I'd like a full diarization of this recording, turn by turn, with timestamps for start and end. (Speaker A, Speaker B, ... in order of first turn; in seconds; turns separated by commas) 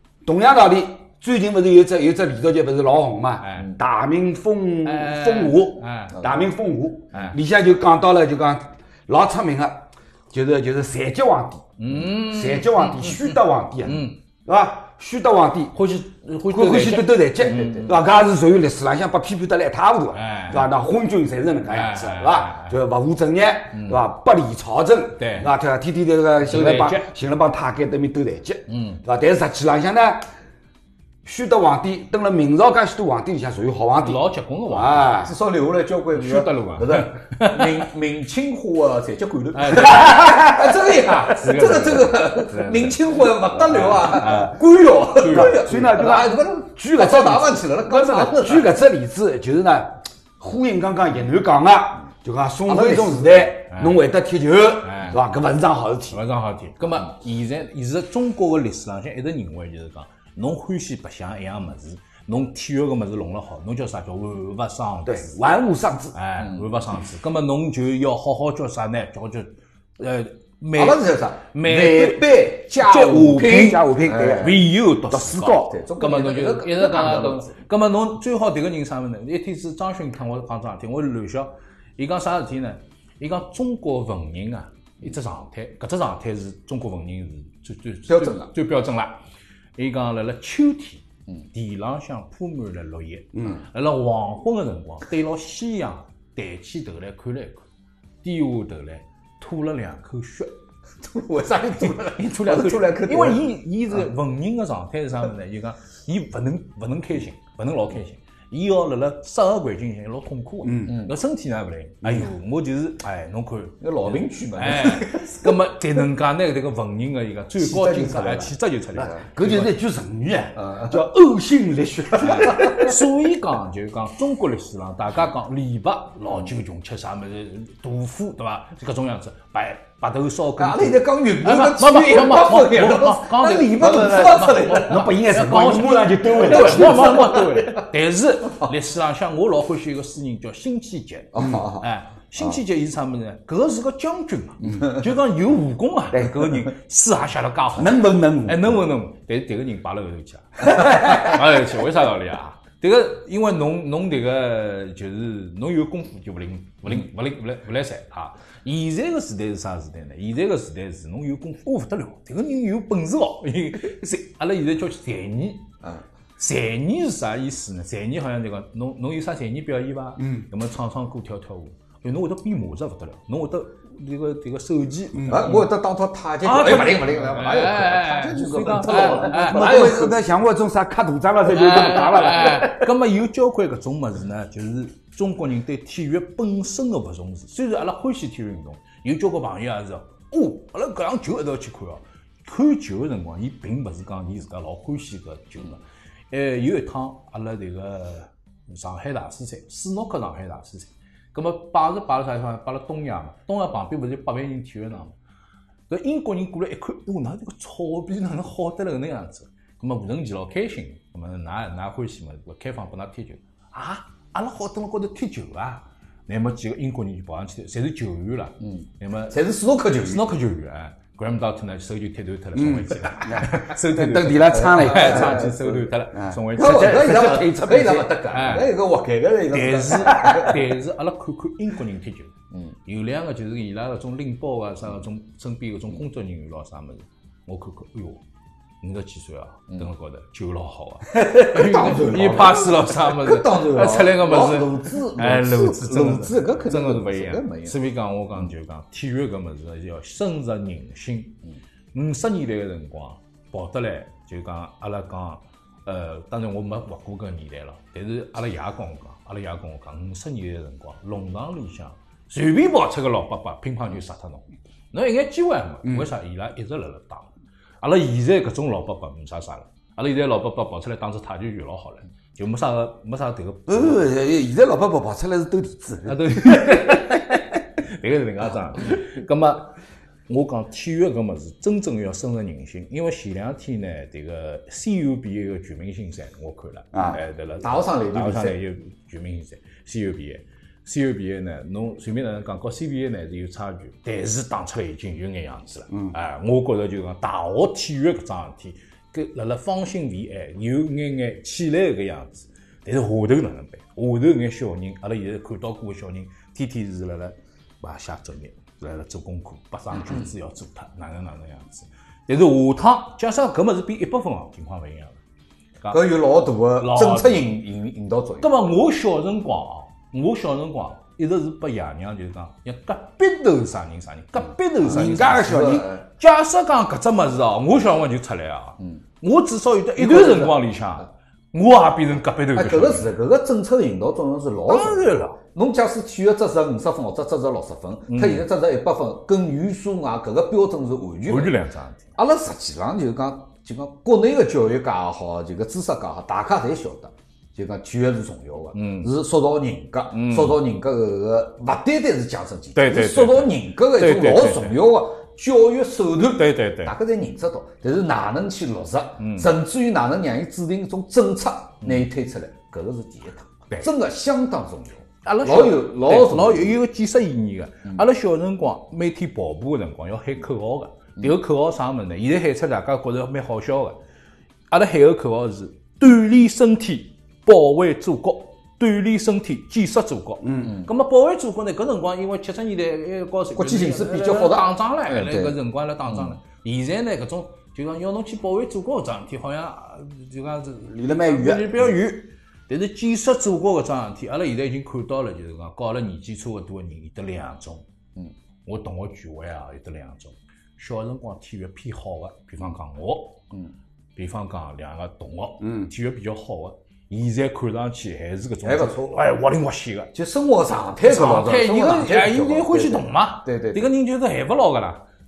Speaker A: 0.2-15.8, Speaker B: 3.4-3.7, Speaker B: 4.8-6.2, Speaker C: 6.2-6.5, Speaker B: 11.8-14.2, Speaker B: 15.8-17.9, Speaker A: 16.5-30.3, Speaker C: 17.4-18.0, Speaker B: 20.1-20.7, Speaker B: 21.7-22.8, Speaker B: 23.7-24.0, Speaker B: 25.2-25.5, Speaker B: 26.4-27.1, Speaker B: 28.7-29.0, Speaker A: 31.2-35.3, Speaker B: 34.0-35.1, Speaker C: 35.2-48.7, Speaker B: 36.1-37.9, Speaker B: 39.5-40.4, Speaker A: 39.9-40.7, Speaker B: 41.3-44.5, Speaker A: 44.0-44.5, Speaker B: 45.1-45.7, Speaker A: 45.2-56.2, Speaker C: 52.7-53.5, Speaker B: 53.7-54.0, Speaker B: 54.8-55.2, Speaker B: 56.1-65.4, Speaker A: 65.1-66.2, Speaker B: 66.1-73.8, Speaker C: 66.4-66.7, Speaker C: 70.8-77.5, Speaker A: 72.9-74.5, Speaker B: 74.4-89.2, Speaker A: 75.2-75.6, Speaker C: 88.1-88.5, Speaker B: 89.8-97.6, Speaker A: 93.3-93.6, Speaker B: 98.2-100.5, Speaker C: 101.0-103.5, Speaker B: 101.9-119.7, Speaker A: 110.6-111.0, Speaker C: 113.8-115.6, Speaker C: 117.6-119.3, Speaker A: 119.3-122.9, Speaker C: 120.6-121.0, Speaker B: 122.2-165.7, Speaker C: 122.5-122.9, Speaker C: 130.6-135.1, Speaker A: 133.9-134.2, Speaker A: 134.8-137.3, Speaker C: 136.4-137.9, Speaker C: 141.3-141.9, Speaker A: 141.4-141.7, Speaker A: 146.1-146.5, Speaker A: 147.8-148.8, Speaker B: 166.4-175.7, Speaker A: 170.2-170.5, Speaker A: 175.1-175.5, Speaker C: 175.3-180.2, Speaker B: 176.4-179.9, Speaker A: 178.8-182.8, Speaker B: 181.5-205.2, Speaker B: 205.9-219.3, Speaker C: 219.3-220.3, Speaker B: 220.0-227.2, Speaker A: 222.6-228.1, Speaker C: 224.5-225.8, Speaker C: 226.6-230.6, Speaker B: 228.3-228.8, Speaker B: 229.5-232.3, Speaker A: 230.1-230.4, Speaker B: 232.9-238.2, Speaker B: 238.8-251.4, Speaker C: 241.1-247.8, Speaker B: 251.9-267.3, Speaker B: 267.8-274.0, Speaker A: 273.7-277.2, Speaker B: 276.1-279.8, Speaker B: 280.3-315.2, Speaker A: 286.9-287.2, Speaker C: 287.6-288.6, Speaker C: 315.9-318.6, Speaker B: 316.8-317.5, Speaker B: 318.4-333.1, Speaker A: 324.8-326.0, Speaker C: 325.4-326.0, Speaker C: 330.0-330.8, Speaker C: 332.5-341.6, Speaker B: 334.7-335.4, Speaker B: 338.1-338.4, Speaker B: 341.3-342.1, Speaker C: 342.2-366.8, Speaker B: 348.7-349.1, Speaker B: 350.1-350.6, Speaker B: 352.8-354.8, Speaker B: 356.3-356.9, Speaker B: 359.2-359.5, Speaker B: 361.8-362.1, Speaker B: 365.2-374.0, Speaker B: 374.7-397.8, Speaker A: 380.4-380.8, Speaker C: 383.6-385.6, Speaker A: 390.9-391.9, Speaker B: 398.6-403.4, Speaker B: 404.2-410.1, Speaker A: 405.6-405.9, Speaker C: 408.6-409.2, Speaker C: 410.1-413.9, Speaker B: 411.0-415.0